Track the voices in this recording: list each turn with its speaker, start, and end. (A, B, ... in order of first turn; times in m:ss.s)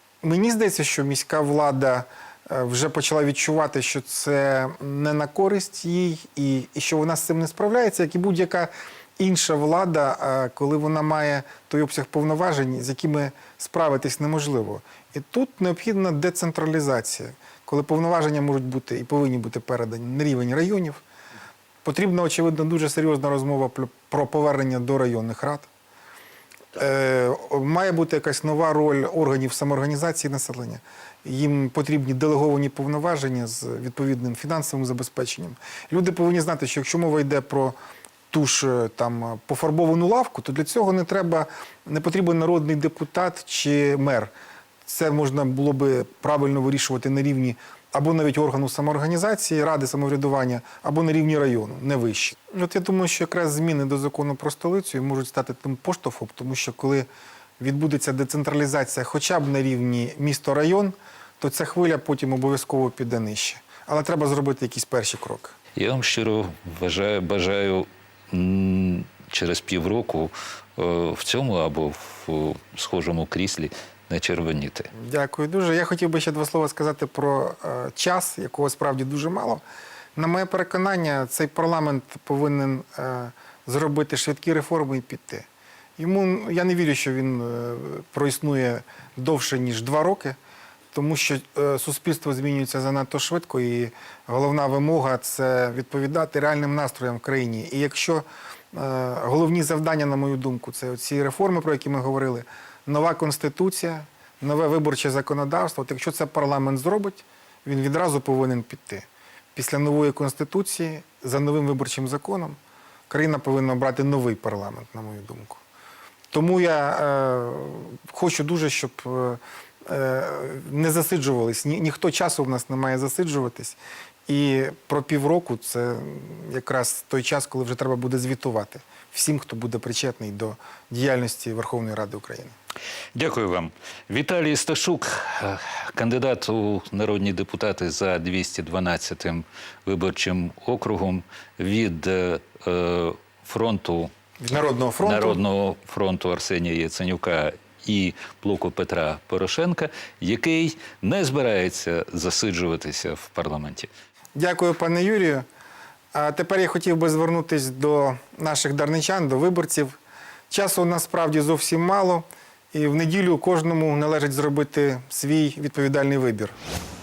0:00.2-0:21.0 A
0:21.8-0:25.7 A
0:26.8-0:37.8 A
0:38.3-0:44.3 A
0:44.8-0:57.1 A
0:57.6-1:05.5 A
1:05.8-1:14.9 B
1:14.9-1:19.6 A
1:20.2-1:25.4 A
1:26.0-1:30.4 A
1:30.9-1:52.6 A
1:53.1-1:55.6 A
1:56.3-2:03.8 A
2:04.3-2:12.5 A
2:13.1-2:24.1 B
2:24.4-2:25.4 A
2:25.0-2:33.9 B
2:34.4-2:35.4 A
2:36.1-2:40.0 A
2:40.5-2:46.5 A